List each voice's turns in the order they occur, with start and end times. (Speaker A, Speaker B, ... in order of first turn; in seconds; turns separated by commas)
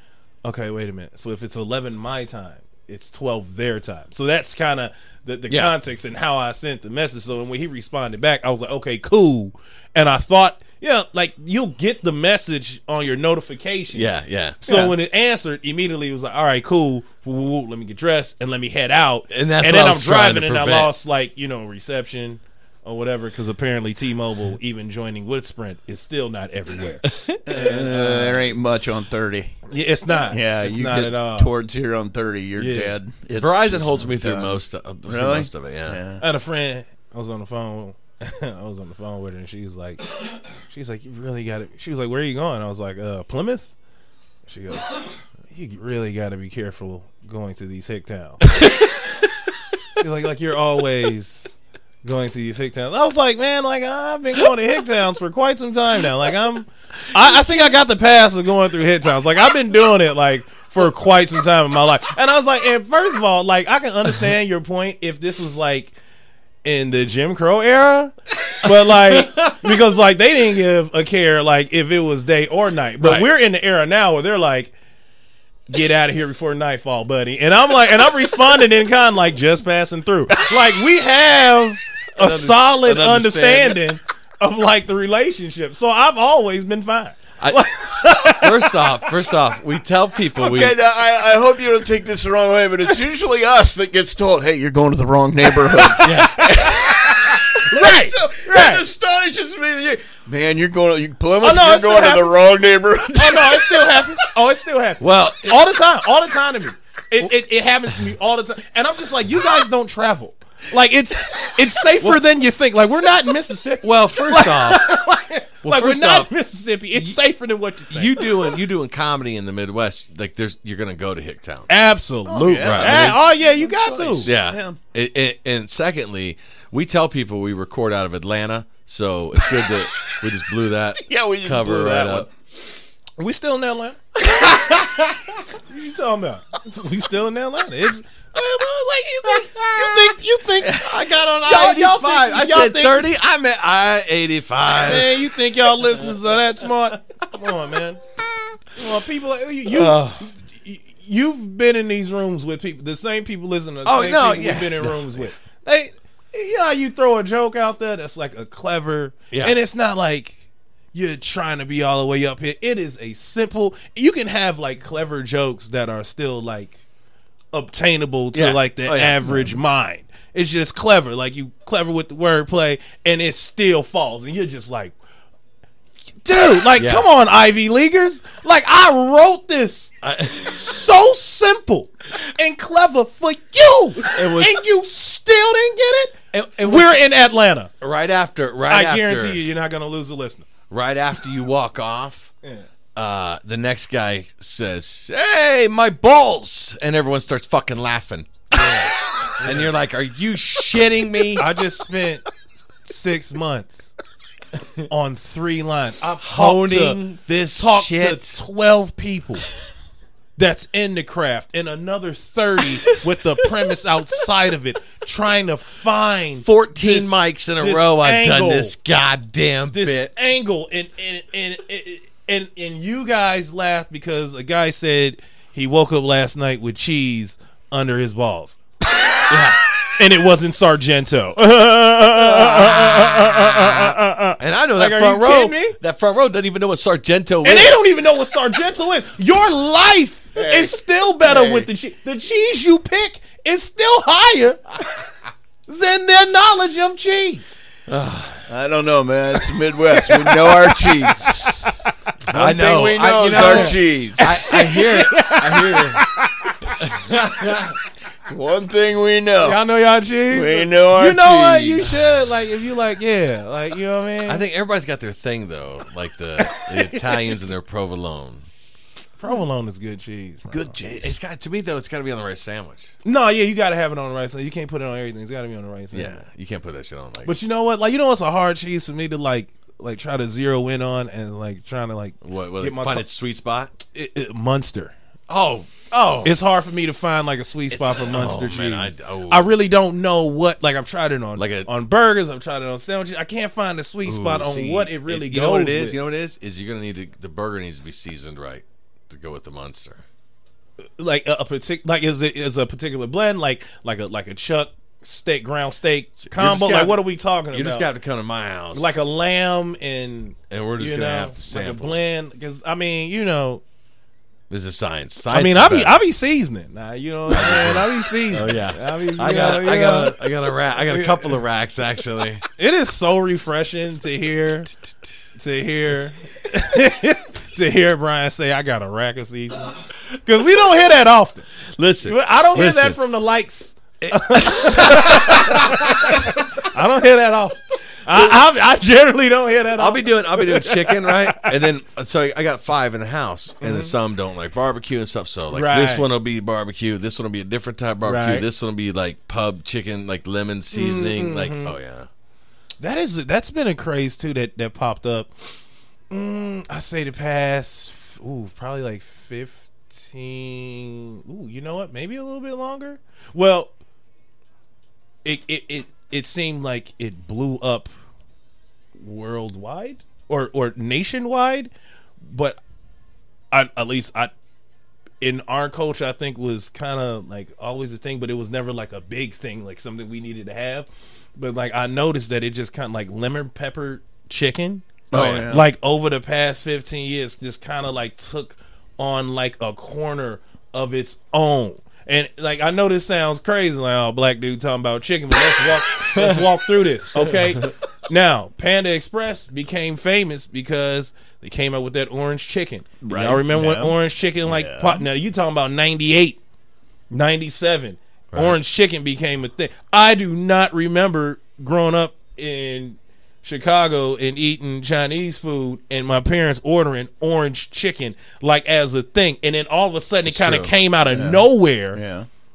Speaker A: 0.4-14.1, Speaker B: 5.5-5.7, Speaker B: 13.9-14.6, Speaker A: 14.6-28.5, Speaker C: 14.7-14.9, Speaker B: 19.3-20.9, Speaker B: 27.1-27.4, Speaker C: 27.5-29.6, Speaker A: 29.7-31.5, Speaker C: 30.3-36.2, Speaker A: 32.6-33.0, Speaker B: 33.4-36.0, Speaker A: 36.2-40.0, Speaker A: 40.7-43.7, Speaker A: 44.5-44.9, Speaker A: 45.5-48.4, Speaker A: 50.0-51.5, Speaker A: 52.0-66.0, Speaker A: 66.7-74.7, Speaker B: 68.7-69.7, Speaker B: 73.0-73.3, Speaker A: 75.7-88.7, Speaker B: 82.2-83.8, Speaker B: 87.4-90.8, Speaker C: 90.4-96.1, Speaker A: 95.7-98.9, Speaker B: 96.0-96.9, Speaker C: 96.9-103.9, Speaker A: 101.4-102.4, Speaker A: 103.1-118.6, Speaker B: 105.0-105.6, Speaker B: 113.8-114.9, Speaker B: 115.6-116.3, Speaker B: 116.9-117.2, Speaker B: 117.9-121.7, Speaker A: 121.7-124.3, Speaker C: 122.3-124.8, Speaker B: 122.6-123.2, Speaker B: 124.2-132.3, Speaker C: 131.1-132.3, Speaker A: 133.2-134.8, Speaker A: 135.7-140.8, Speaker B: 140.7-145.2, Speaker A: 141.4-143.1, Speaker A: 144.8-148.0, Speaker A: 148.8-160.4, Speaker B: 149.7-150.2, Speaker B: 153.8-155.2, Speaker B: 159.3-159.6, Speaker A: 160.9-166.8, Speaker A: 167.5-175.0, Speaker B: 168.3-169.6, Speaker A: 176.2-179.9, Speaker B: 176.7-177.1, Speaker B: 180.0-180.7, Speaker A: 180.5-187.7, Speaker B: 184.1-184.6, Speaker B: 186.3-187.0, Speaker B: 187.8-189.4, Speaker A: 188.7-190.5, Speaker B: 190.7-192.3, Speaker B: 193.0-198.6, Speaker A: 198.5-199.7, Speaker B: 199.4-201.5, Speaker A: 201.4-202.2, Speaker A: 202.8-203.9, Speaker A: 204.9-207.0, Speaker B: 206.2-208.4, Speaker A: 207.6-209.5, Speaker A: 210.4-218.7, Speaker B: 216.4-220.1, Speaker A: 219.7-228.6, Speaker B: 229.3-229.6, Speaker A: 230.0-235.8, Speaker B: 232.6-237.9, Speaker A: 237.4-244.6, Speaker C: 240.3-241.7, Speaker A: 245.7-247.6, Speaker B: 247.9-248.4, Speaker C: 248.5-251.6, Speaker A: 250.1-251.6, Speaker B: 252.3-256.0, Speaker C: 252.3-254.3, Speaker A: 253.3-256.7, Speaker B: 256.8-257.8, Speaker C: 258.3-259.6, Speaker A: 259.4-264.4, Speaker C: 260.3-262.0, Speaker B: 264.3-268.5, Speaker A: 266.4-267.1, Speaker A: 269.2-270.8, Speaker C: 270.5-271.1, Speaker B: 270.8-272.9, Speaker A: 273.0-276.2, Speaker B: 275.9-277.4, Speaker A: 277.2-283.1, Speaker B: 282.2-283.7, Speaker A: 283.9-284.9, Speaker B: 285.3-286.3, Speaker A: 286.2-296.0, Speaker B: 287.7-289.5, Speaker B: 291.4-291.7, Speaker B: 294.1-300.0, Speaker A: 301.0-307.9, Speaker B: 306.2-307.0, Speaker B: 307.5-309.0, Speaker A: 308.7-313.6, Speaker B: 310.5-312.0, Speaker B: 314.5-316.0, Speaker A: 315.3-320.2, Speaker B: 317.3-322.4, Speaker A: 320.8-321.4, Speaker A: 322.6-324.8, Speaker A: 325.4-331.5, Speaker B: 331.8-333.0, Speaker A: 332.0-341.5, Speaker B: 334.0-336.2, Speaker B: 339.8-352.1, Speaker A: 343.6-343.9, Speaker A: 345.5-346.1, Speaker A: 348.0-348.5, Speaker A: 350.7-351.8, Speaker A: 352.8-363.7, Speaker A: 365.2-367.9, Speaker A: 369.0-371.7, Speaker A: 372.2-372.6, Speaker A: 373.5-374.3, Speaker A: 375.2-406.4, Speaker C: 385.1-385.6, Speaker B: 396.1-396.4, Speaker C: 403.0-405.0, Speaker A: 407.1-422.0, Speaker B: 408.3-408.6, Speaker B: 420.2-420.7, Speaker C: 421.1-422.3